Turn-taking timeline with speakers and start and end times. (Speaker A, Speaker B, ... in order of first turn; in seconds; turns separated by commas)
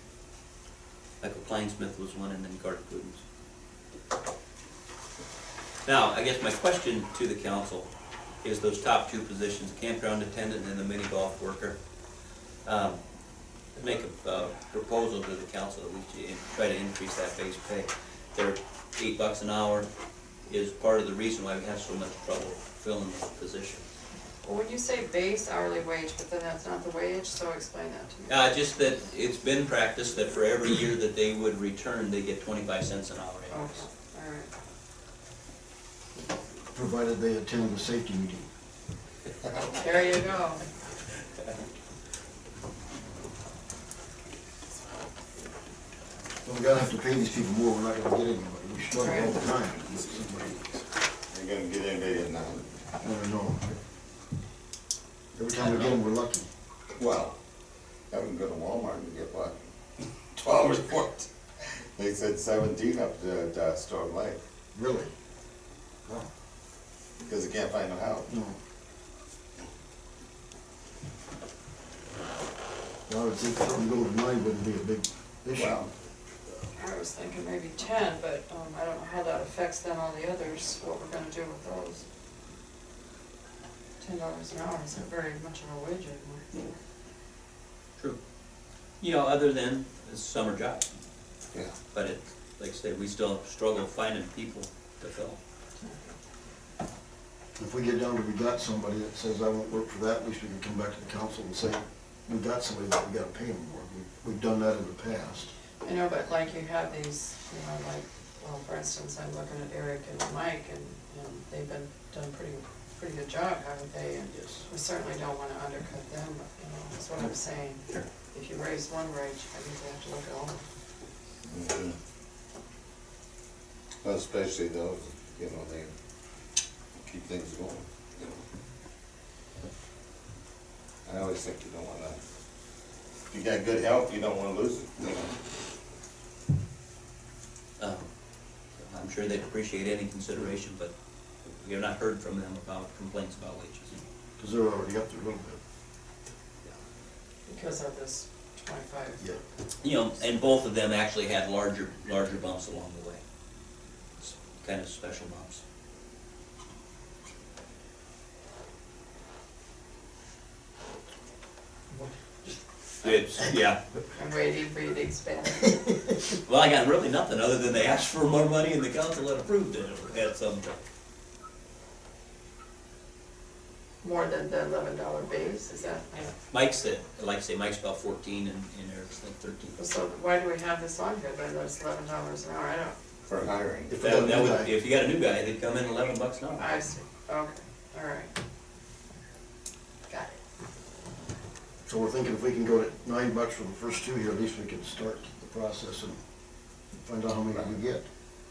Speaker A: 1.2-3.2, Speaker A: 5.8-7.9, Speaker A: 8.4-11.8, Speaker A: 12.6-13.0, Speaker A: 13.8-19.9, Speaker A: 20.5-23.8, Speaker B: 24.4-28.4, Speaker A: 28.3-33.8, Speaker B: 33.5-34.5, Speaker C: 36.7-38.5, Speaker B: 39.5-40.6, Speaker C: 46.4-50.8, Speaker B: 49.0-49.4, Speaker D: 51.3-52.7, Speaker C: 53.0-53.7, Speaker C: 55.3-56.5, Speaker D: 56.9-57.3, Speaker D: 58.1-59.5, Speaker D: 60.2-61.3, Speaker D: 62.0-64.4, Speaker C: 64.7-65.1, Speaker D: 67.2-68.3, Speaker C: 68.3-68.6, Speaker C: 73.1-75.9, Speaker D: 75.5-75.9, Speaker B: 76.8-82.0, Speaker B: 84.0-86.7, Speaker A: 89.0-90.8, Speaker A: 91.9-95.4, Speaker C: 97.6-105.5, Speaker B: 105.8-120.6, Speaker A: 114.3-114.6, Speaker D: 121.4-122.0, Speaker D: 124.0-125.9, Speaker D: 127.0-128.4, Speaker D: 131.0-132.2, Speaker D: 133.3-135.4, Speaker A: 137.8-138.1, Speaker A: 138.8-140.9, Speaker A: 141.4-144.0, Speaker C: 144.4-145.6, Speaker B: 147.5-149.2, Speaker A: 149.8-153.2, Speaker A: 154.2-155.6, Speaker C: 161.9-162.5, Speaker A: 163.0-163.8, Speaker B: 164.1-165.9, Speaker A: 166.3-170.8, Speaker B: 174.0-176.3, Speaker A: 176.3-179.8, Speaker B: 179.8-182.9, Speaker D: 183.2-183.9, Speaker C: 183.9-184.7, Speaker A: 184.0-186.9, Speaker B: 186.6-188.3, Speaker B: 190.1-190.4, Speaker C: 191.8-196.2, Speaker C: 197.0-198.0